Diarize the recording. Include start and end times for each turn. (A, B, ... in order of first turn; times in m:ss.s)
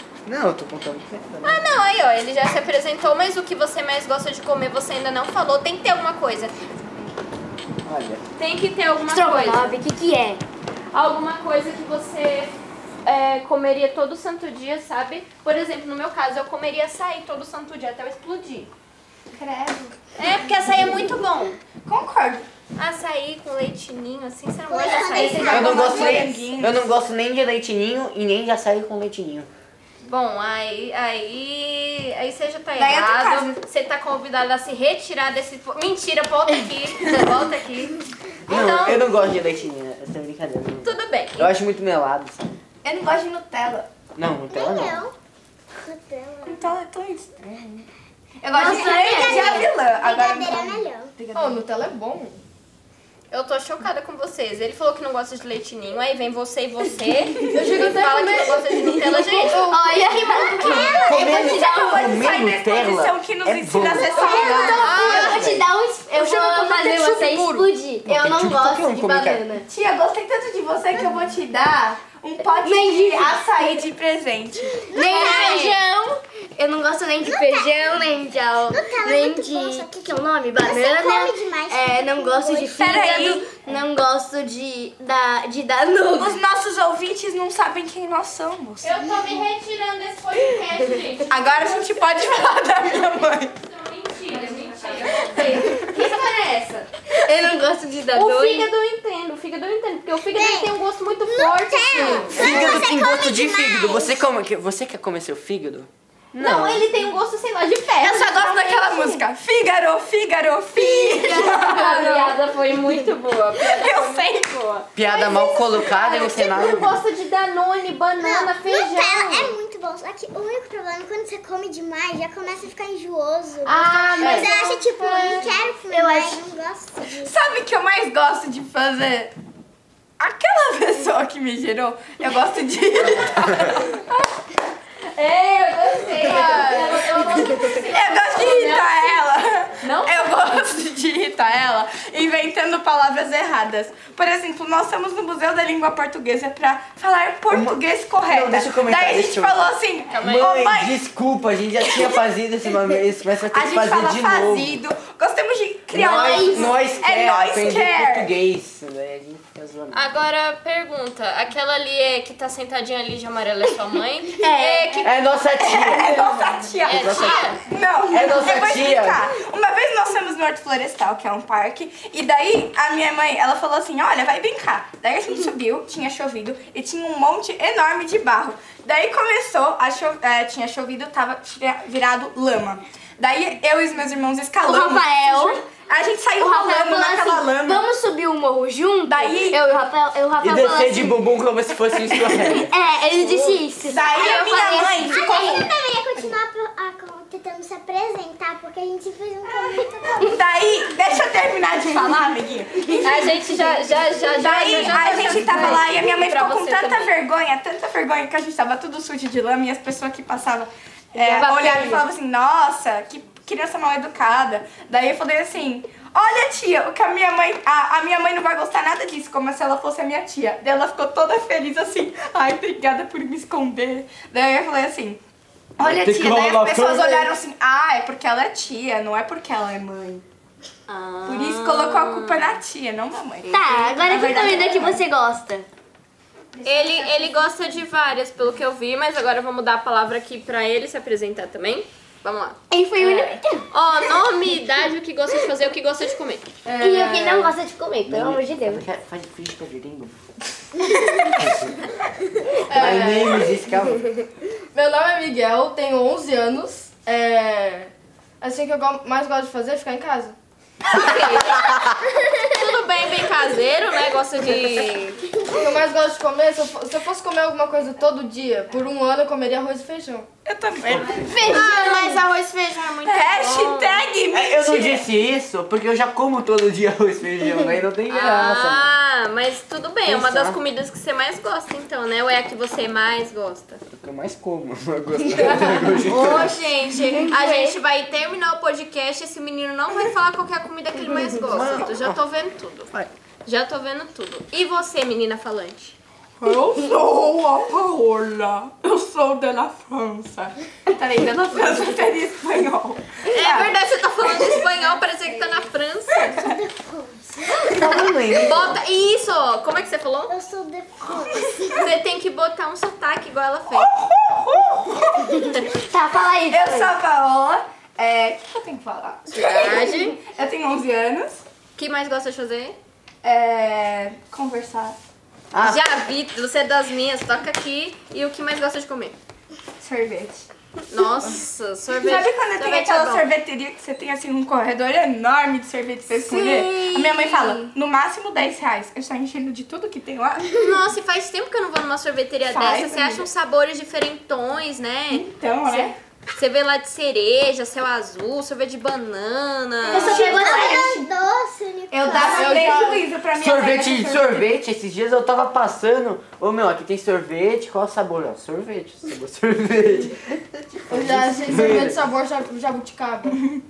0:00.2-0:01.8 A
0:01.4-0:06.9 B
0:07.8-0:08.2 A
0:08.4-0:09.8 B
0:09.0-0:10.4 C
0:10.9-0:18.7 B
0:19.3-0:21.2 D
0:20.2-0:21.6 B
0:21.8-0:22.5 D
0:22.8-0:25.6 B
0:24.7-0:26.4 E
0:25.1-0:26.8 D
0:25.5-0:29.5 A
0:30.0-0:39.2 B
0:32.8-0:33.6 D
0:38.5-0:42.5 A
0:40.8-0:41.6 B
0:42.8-0:43.9 D
0:44.2-0:45.0 A
0:44.5-0:45.2 E
0:45.8-0:46.7 E
0:46.5-0:47.3 D
0:47.4-0:47.8 A
0:48.4-0:51.6 D
0:48.5-0:49.7 C
0:48.6-0:51.1 E
0:51.3-0:52.4 F
0:53.3-0:59.7 B
0:57.5-1:00.2 F
0:57.6-0:58.0 C
0:58.7-1:02.0 C
1:00.3-1:01.4 E
1:00.6-1:04.2 A
1:01.0-1:05.5 D
1:04.1-1:05.0 E
1:04.2-1:09.7 C
1:04.7-1:05.4 B
1:05.1-1:05.6 A
1:06.2-1:07.7 F
1:08.0-1:09.4 A
1:09.6-1:14.8 D
1:10.9-1:11.3 E
1:12.6-1:13.8 C
1:14.9-1:15.8 E
1:14.9-1:26.4 C
1:15.1-1:15.6 B
1:17.2-1:18.0 E
1:18.7-1:23.3 E
1:22.8-1:23.5 D
1:26.2-1:29.0 D
1:28.8-1:32.1 B
1:31.3-1:33.6 D
1:33.5-1:36.9 B
1:37.1-1:38.7 C
1:38.1-1:42.7 B
1:40.3-1:40.7 E
1:41.3-1:44.2 E
1:42.3-1:46.9 A
1:46.4-1:49.2 B
1:48.0-1:52.3 D
1:51.2-1:53.1 C
1:51.5-1:59.6 B
1:53.6-1:54.5 D
1:55.0-1:57.0 A
1:55.1-1:56.2 E
1:58.2-2:07.3 E
2:03.6-2:05.6 B
2:07.2-2:09.3 D
2:10.2-2:14.0 D
2:15.2-2:19.2 B
2:16.2-2:31.0 D
2:19.8-2:20.3 B
2:27.5-2:29.7 A
2:30.1-2:30.6 B
2:30.2-2:34.8 A
2:33.5-2:38.3 D
2:35.9-2:40.1 A
2:36.0-2:36.8 C
2:39.9-2:45.2 B
2:44.4-2:45.0 C
2:45.0-2:46.2 A
2:45.6-3:07.9 D
2:46.8-2:47.6 B
2:46.9-2:47.6 A
2:48.1-2:49.3 A
3:04.6-3:05.6 C
3:06.4-3:11.2 C
3:09.1-3:09.6 D
3:10.4-3:12.7 A
3:12.2-3:12.5 D
3:12.5-3:15.4 C
3:13.4-3:15.7 D
3:15.1-3:20.3 E
3:20.1-3:23.7 D
3:23.0-3:27.2 B
3:24.3-3:45.2 D
3:24.7-3:25.4 C
3:31.2-3:32.0 C
3:45.8-3:47.3 A
3:45.8-3:50.2 D
3:50.9-3:52.6 B
3:51.2-3:55.0 D
3:53.5-3:55.7 C
3:54.2-3:54.5 B
3:56.6-4:02.6 B
4:02.7-4:03.7 C
4:03.7-4:06.5 B
4:06.6-4:07.5 F
4:06.8-4:08.8 C
4:08.1-4:10.2 A
4:11.4-4:11.7 A
4:12.6-4:13.6 F
4:12.7-4:14.1 A
4:14.7-4:20.4 F
4:20.9-4:21.8 B
4:21.0-4:22.0 A
4:22.0-4:22.7 E
4:22.5-4:25.2 B
4:25.5-4:30.3 F
4:30.4-4:31.6 D
4:31.1-4:32.2 C
4:31.4-4:34.1 B
4:33.0-4:35.1 D
4:34.3-4:38.9 A
4:38.1-4:43.8 B
4:40.1-4:40.6 A
4:43.9-4:46.6 A
4:45.4-4:56.0 B
4:46.1-4:47.8 C
4:51.3-4:52.2 A
4:56.4-5:03.7 D
5:03.3-5:06.4 B
5:06.3-5:08.4 E
5:07.6-5:08.8 A
5:08.3-5:10.3 B
5:10.3-5:11.9 E
5:11.8-5:14.0 B
5:13.7-5:15.6 D
5:15.8-5:16.9 C
5:16.5-5:21.4 D
5:19.3-5:20.2 B
5:21.8-5:22.8 B
5:23.2-5:25.0 D
5:25.5-5:25.8 A
5:25.6-5:29.2 B
5:29.8-5:30.5 D
5:30.9-5:33.3 B
5:32.0-5:40.6 D
5:36.1-5:37.7 C
5:40.5-5:45.3 B
5:42.5-5:43.2 D
5:45.1-5:46.0 D
5:46.4-5:50.3 B
5:49.9-5:51.1 C
5:49.9-5:50.8 D
5:49.9-5:52.8 E
5:51.9-5:54.5 D
5:52.2-5:53.1 F
5:53.4-6:02.1 A
6:00.9-6:03.4 F